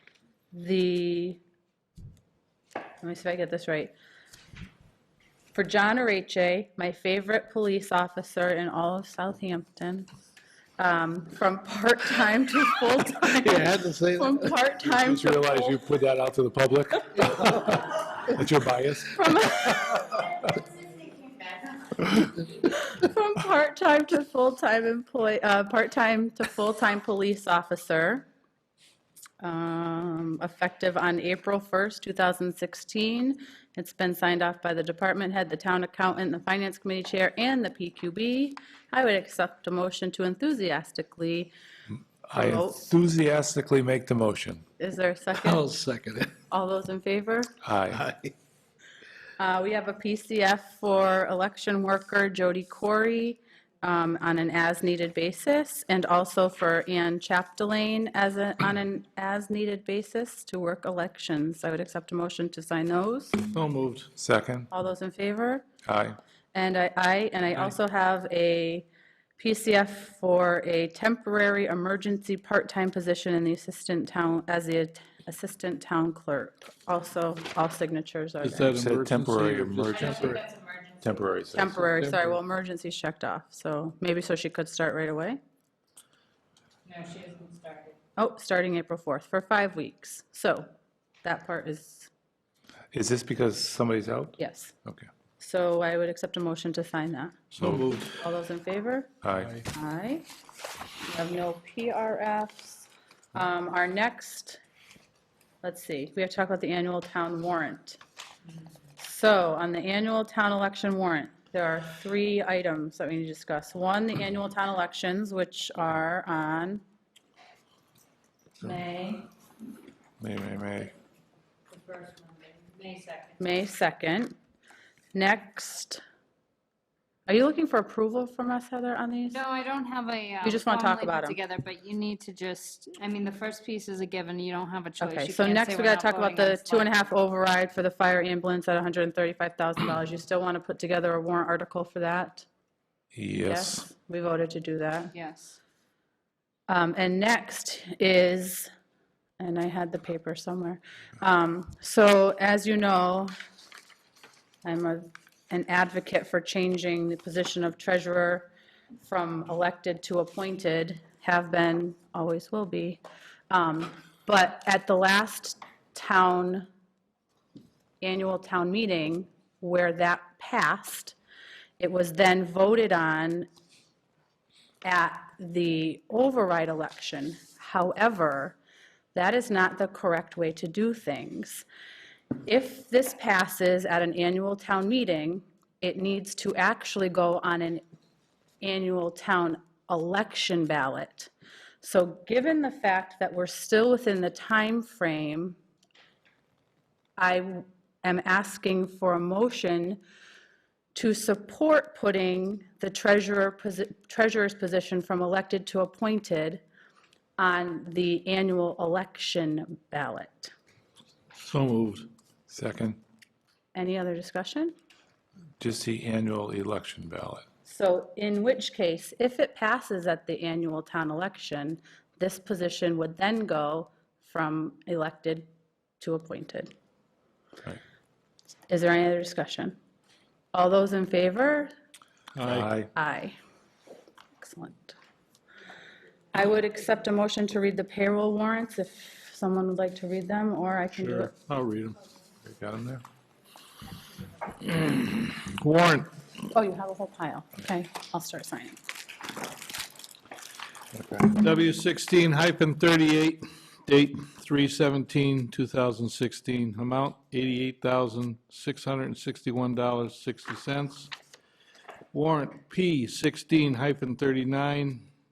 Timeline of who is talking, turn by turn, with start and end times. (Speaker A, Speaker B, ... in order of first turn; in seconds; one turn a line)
Speaker A: 0.5-1.4
Speaker A: 3.0-3.9
Speaker A: 5.5-10.1
Speaker A: 10.8-15.8
Speaker B: 13.4-19.9
Speaker A: 19.1-20.2
Speaker A: 22.0-28.3
Speaker A: 29.4-41.5
Speaker B: 42.2-44.6
Speaker A: 42.3-42.9
Speaker A: 44.8-45.6
Speaker C: 45.4-46.3
Speaker A: 46.5-47.5
Speaker B: 47.6-48.0
Speaker C: 47.9-48.3
Speaker A: 49.4-63.4
Speaker C: 63.5-64.1
Speaker B: 64.2-64.7
Speaker A: 64.7-65.6
Speaker B: 65.8-66.2
Speaker A: 66.5-68.9
Speaker A: 69.4-78.7
Speaker C: 78.4-80.4
Speaker B: 78.7-80.4
Speaker D: 80.0-81.2
Speaker B: 81.0-82.2
Speaker A: 81.5-85.4
Speaker D: 86.8-88.0
Speaker A: 88.2-90.7
Speaker A: 91.2-92.1
Speaker B: 92.9-95.1
Speaker A: 94.4-94.7
Speaker A: 95.4-97.4
Speaker C: 97.5-98.2
Speaker B: 97.6-97.8
Speaker A: 98.1-99.1
Speaker B: 99.2-99.5
Speaker C: 99.4-99.7
Speaker A: 99.7-100.2
Speaker A: 101.0-104.6
Speaker A: 105.6-108.0
Speaker A: 109.0-116.8
Speaker A: 118.6-119.3
Speaker B: 120.2-120.9
Speaker D: 121.7-123.4
Speaker A: 123.4-124.3
Speaker A: 125.1-126.0
Speaker A: 127.3-129.4
Speaker D: 129.3-136.9
Speaker A: 130.4-131.4
Speaker A: 135.0-142.4
Speaker B: 143.1-143.8
Speaker A: 143.4-145.1
Speaker D: 145.1-145.6
Speaker A: 146.7-148.7
Speaker A: 149.4-153.3
Speaker A: 154.6-158.5
Speaker A: 159.0-166.7
Speaker A: 168.0-171.2
Speaker A: 171.8-173.5
Speaker A: 174.8-178.6
Speaker A: 179.1-181.6
Speaker A: 182.4-187.8
Speaker A: 188.6-195.6
Speaker A: 197.2-200.0
Speaker A: 200.9-206.6
Speaker A: 207.4-210.5
Speaker C: 211.3-212.1
Speaker B: 212.5-213.0
Speaker A: 213.7-214.7
Speaker B: 215.6-217.4
Speaker A: 217.7-225.5
Speaker A: 226.0-226.7
Speaker A: 228.7-229.8
Speaker A: 230.5-231.7
Speaker C: 232.3-232.7
Speaker B: 232.4-232.9
Speaker A: 232.9-233.3
Speaker A: 234.4-234.9
Speaker A: 236.3-241.3
Speaker C: 241.0-242.0
Speaker B: 242.4-243.0
Speaker C: 244.6-246.1
Speaker A: 246.5-248.8
Speaker B: 250.9-251.3
Speaker C: 251.3-261.1
Speaker C: 262.1-265.1